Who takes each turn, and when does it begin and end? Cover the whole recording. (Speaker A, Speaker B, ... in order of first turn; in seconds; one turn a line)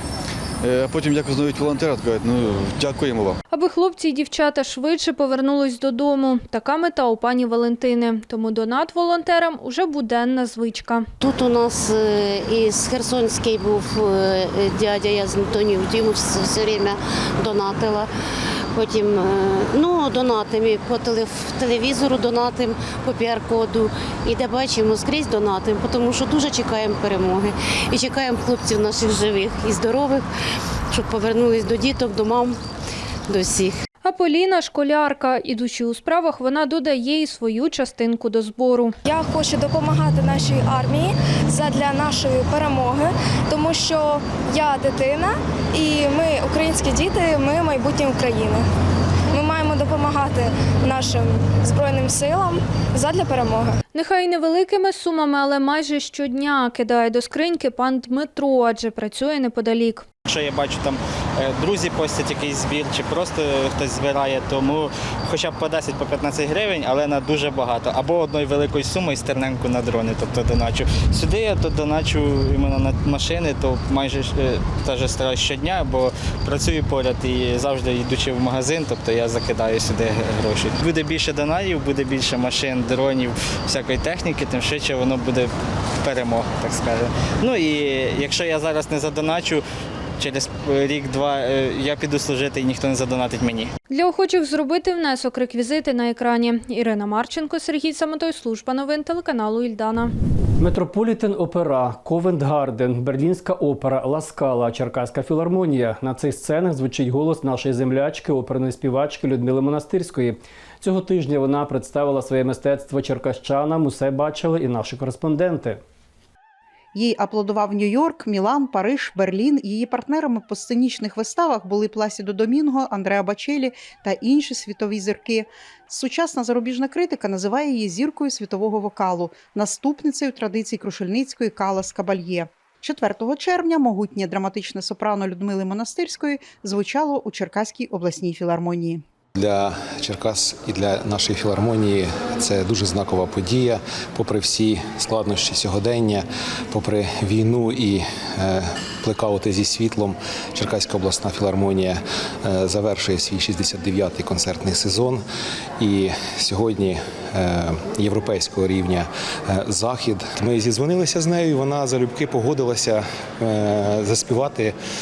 Speaker A: 0.6-3.4
Speaker B: 3.5-11.1
Speaker C: 11.2-18.1
Speaker C: 18.7-30.2
Speaker C: 30.9-32.6
Speaker C: 33.3-33.8
Speaker B: 34.0-39.0
Speaker D: 39.0-48.6
Speaker D: 49.3-53.8
Speaker B: 53.9-60.1
Speaker E: 60.2-89.6
Speaker E: 90.2-93.7
Speaker B: 93.9-100.1
Speaker F: 100.6-115.8
Speaker G: 116.9-139.0
Speaker H: 139.3-155.2
Speaker H: 155.8-164.8